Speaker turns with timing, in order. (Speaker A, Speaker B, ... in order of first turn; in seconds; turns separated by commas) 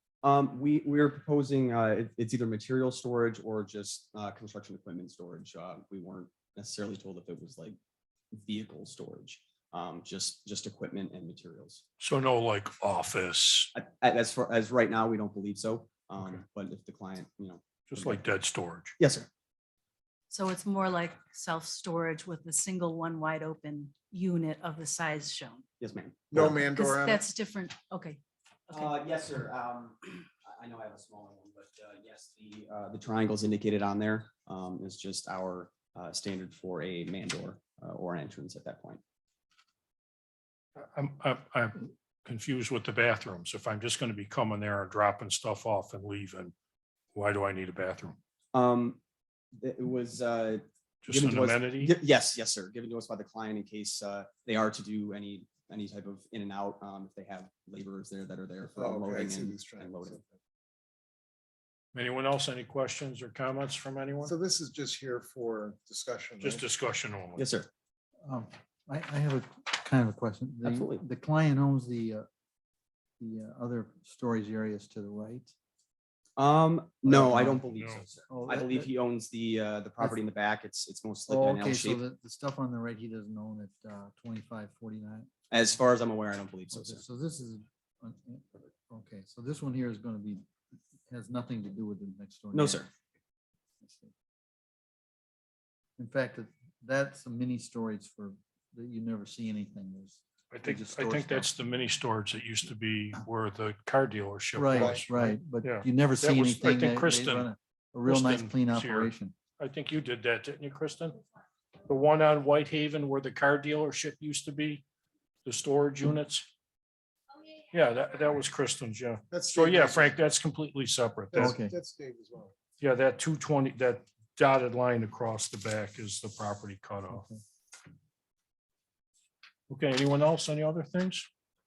Speaker A: 0.2-7.8, Speaker A: 8.3-11.8, Speaker B: 12.0-13.7, Speaker A: 13.7-18.2, Speaker B: 16.2-16.4, Speaker B: 17.9-18.9, Speaker A: 19.0-19.3, Speaker C: 20.3-25.6, Speaker A: 25.8-26.5, Speaker D: 26.3-27.2, Speaker C: 26.3-28.9, Speaker A: 28.7-39.0, Speaker B: 40.8-46.5, Speaker B: 47.1-48.2, Speaker A: 48.5-49.0, Speaker A: 49.5-60.2, Speaker B: 51.0-51.9, Speaker D: 58.6-60.2, Speaker B: 61.9-64.3, Speaker D: 64.2-66.7, Speaker B: 66.4-67.5, Speaker A: 67.3-67.7, Speaker E: 68.2-72.3, Speaker A: 70.6-71.0, Speaker E: 73.2-75.5, Speaker A: 76.4-82.0, Speaker E: 77.0-77.7, Speaker B: 77.7-78.0, Speaker E: 78.2-78.9, Speaker E: 81.3-85.3, Speaker A: 85.5-87.0, Speaker E: 86.7-90.5, Speaker E: 91.1-92.9, Speaker A: 92.5-92.9, Speaker E: 93.8-94.1, Speaker E: 96.0-101.5, Speaker B: 100.5-107.5, Speaker E: 104.5-109.3, Speaker D: 104.8-105.0, Speaker B: 108.0-111.2, Speaker B: 111.8-114.8, Speaker B: 115.4-116.5, Speaker B: 117.7-121.6, Speaker D: 119.3-120.1, Speaker E: 121.3-121.7, Speaker D: 121.3-122.5, Speaker B: 122.8-127.2, Speaker E: 127.1-127.4, Speaker B: 129.7-131.3